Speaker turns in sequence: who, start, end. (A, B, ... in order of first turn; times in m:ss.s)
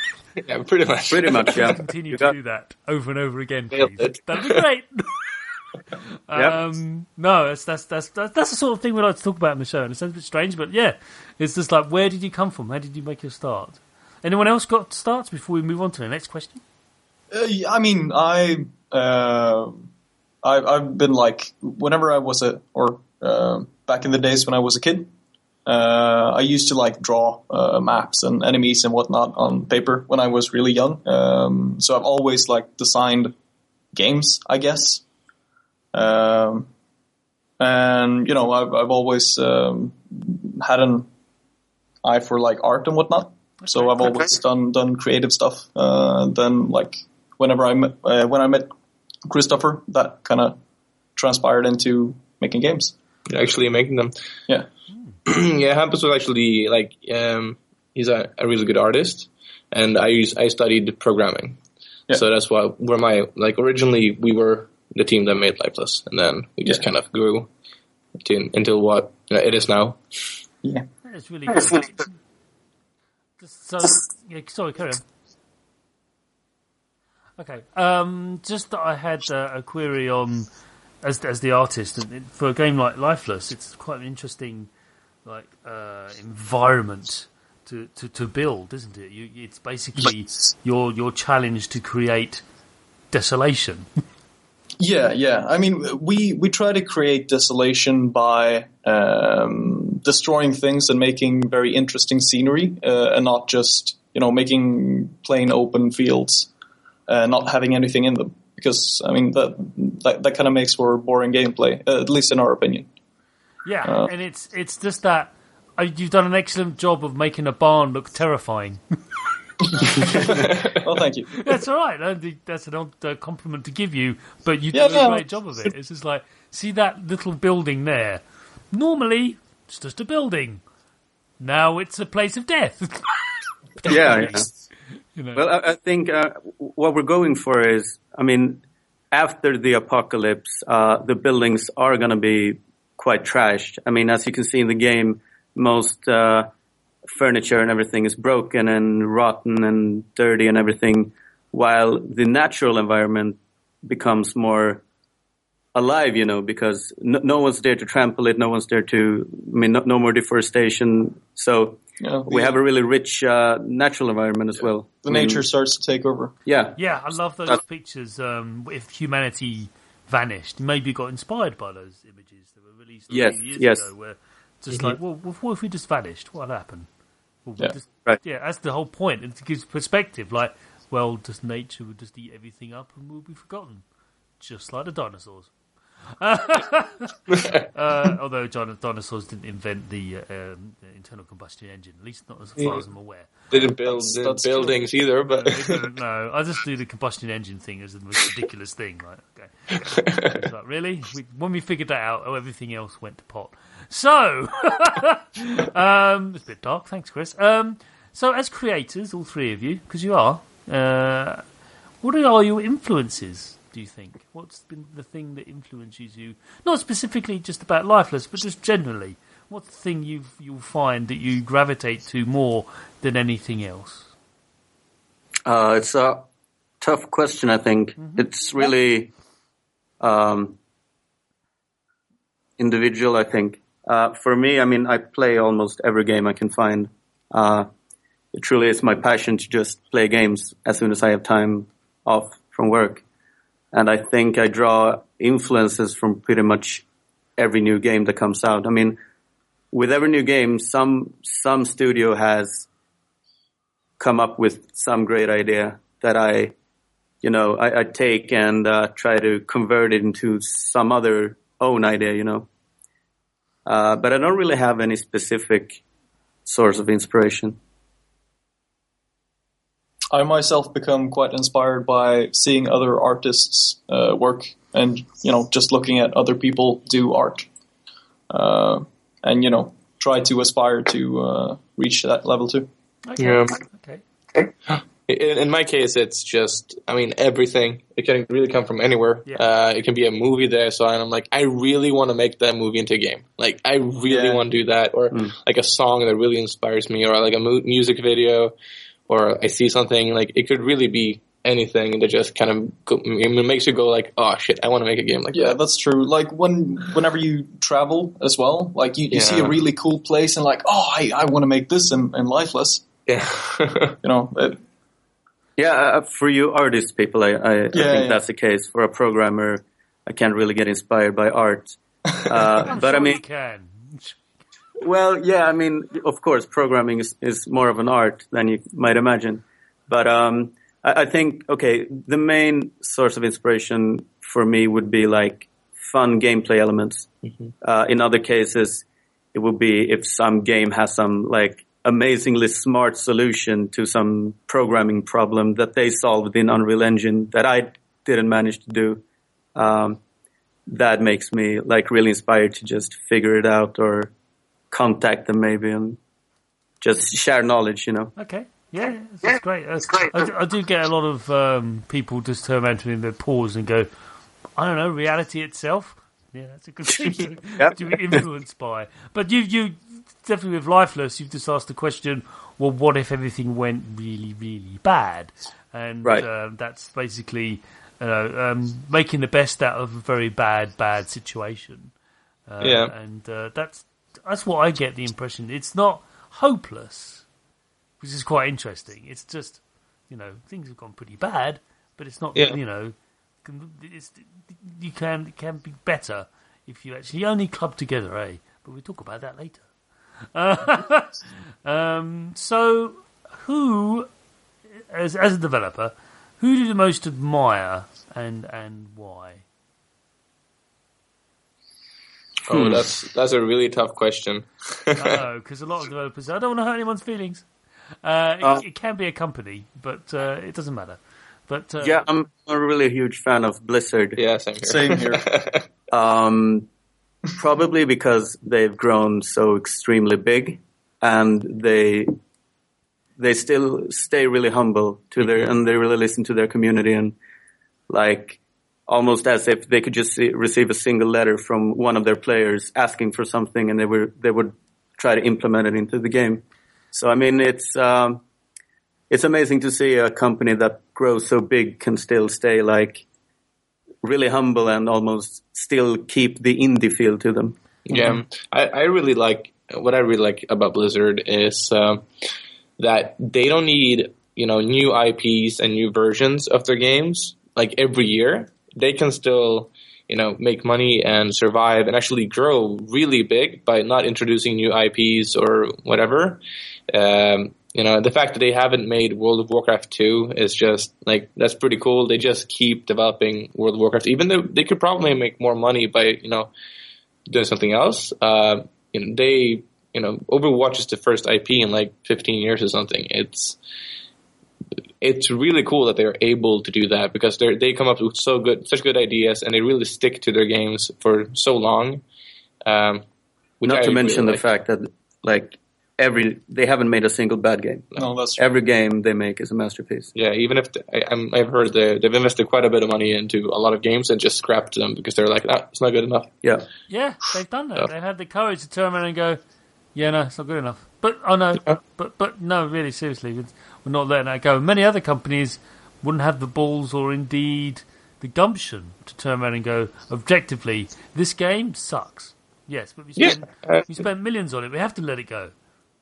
0:00.4-0:01.7 A
0:01.1-0:02.3 B
0:01.4-0:05.4 C
0:03.7-0:04.6 A
0:06.3-0:16.6 C
0:17.3-0:19.9 D
0:20.4-0:25.1 D
0:25.7-0:33.3 D
0:33.9-0:35.0 D
0:35.9-0:36.7 D
0:37.6-0:41.1 D
0:42.0-0:48.7 D
0:43.6-0:44.2 C
0:49.3-0:50.6 D
0:51.2-0:52.9 D
0:53.3-0:54.1 A
0:55.3-1:01.6 A
1:02.1-1:07.5 A
1:08.2-1:10.0 A
1:11.0-1:12.1 C
1:13.4-1:15.0 C
1:17.4-1:20.5 C
1:21.0-1:24.7 C
1:25.2-1:32.4 C
1:33.1-1:33.9 C
1:34.8-1:46.5 D
1:47.1-1:52.9 D
1:53.6-1:58.8 C
1:53.8-1:54.1 D
2:00.2-2:01.4 D
2:01.4-2:10.6 C
2:04.7-2:05.2 D
2:11.4-2:13.2 C
2:13.8-2:15.4 C
2:13.8-2:14.5 B
2:15.4-2:26.5 B
2:27.1-2:34.8 B
2:35.8-2:45.4 B
2:42.0-2:42.6 D
2:45.0-2:46.3 D
2:46.5-2:46.8 B
2:46.8-2:56.9 C
2:53.1-2:53.8 B
2:57.5-3:03.8 C
3:04.4-3:05.5 C
3:06.2-3:13.5 C
3:07.4-3:07.6 A
3:13.5-3:15.9 A
3:13.6-3:14.8 D
3:15.3-3:31.4 C
3:32.0-3:44.1 C
3:45.5-3:46.3 B
3:46.8-3:49.1 B
3:48.0-3:48.2 C
3:50.0-3:50.6 B
3:52.6-3:57.7 B
3:58.3-4:03.0 B
4:03.7-4:06.8 B
4:07.4-4:09.0 B
4:09.7-4:12.7 B
4:14.0-4:16.5 B
4:17.2-4:22.5 B
4:23.7-4:25.8 B
4:26.5-4:27.6 B
4:30.1-4:37.5 D
4:38.3-4:42.7 D
4:43.1-4:44.0 C
4:43.2-4:43.6 A
4:44.8-4:58.5 A
4:54.1-4:54.4 D
4:59.1-5:05.6 A
5:05.3-5:12.8 D
5:09.1-5:09.6 A
5:13.1-5:14.0 A
5:14.0-5:14.6 D
5:15.6-5:23.2 B
5:17.7-5:18.2 D
5:22.6-5:24.2 C
5:24.8-5:37.1 B
5:37.6-5:49.0 B
5:49.6-5:50.0 B
5:50.7-5:54.1 B
5:54.7-5:56.0 B
5:56.8-5:58.1 B
5:58.2-6:03.9 C
6:04.6-6:21.9 C
6:07.6-6:08.2 B
6:22.5-6:27.2 C
6:22.6-6:22.9 A
6:28.0-6:39.7 C
6:40.3-6:44.1 C
6:44.9-6:49.4 C
6:52.5-6:55.2 A
6:52.5-6:52.8 B
6:55.0-6:57.5 C
6:58.0-7:02.0 C
7:01.8-7:04.2 B
7:04.2-7:05.6 A
7:04.6-7:05.3 D
7:05.9-7:06.7 B
7:07.3-7:12.1 B
7:13.2-7:17.2 B
7:17.9-7:28.2 B
7:29.1-7:33.0 B
7:34.0-7:37.6 B
7:37.9-7:42.1 A
7:42.8-8:06.5 A
8:07.3-8:13.6 A
8:15.0-8:22.0 A
8:22.7-8:23.0 A
8:23.6-8:24.4 A
8:23.7-8:30.1 B
8:28.0-8:28.5 D
8:30.2-8:36.3 A
8:36.9-8:39.4 C
8:40.0-8:55.5 C
8:53.2-8:54.0 A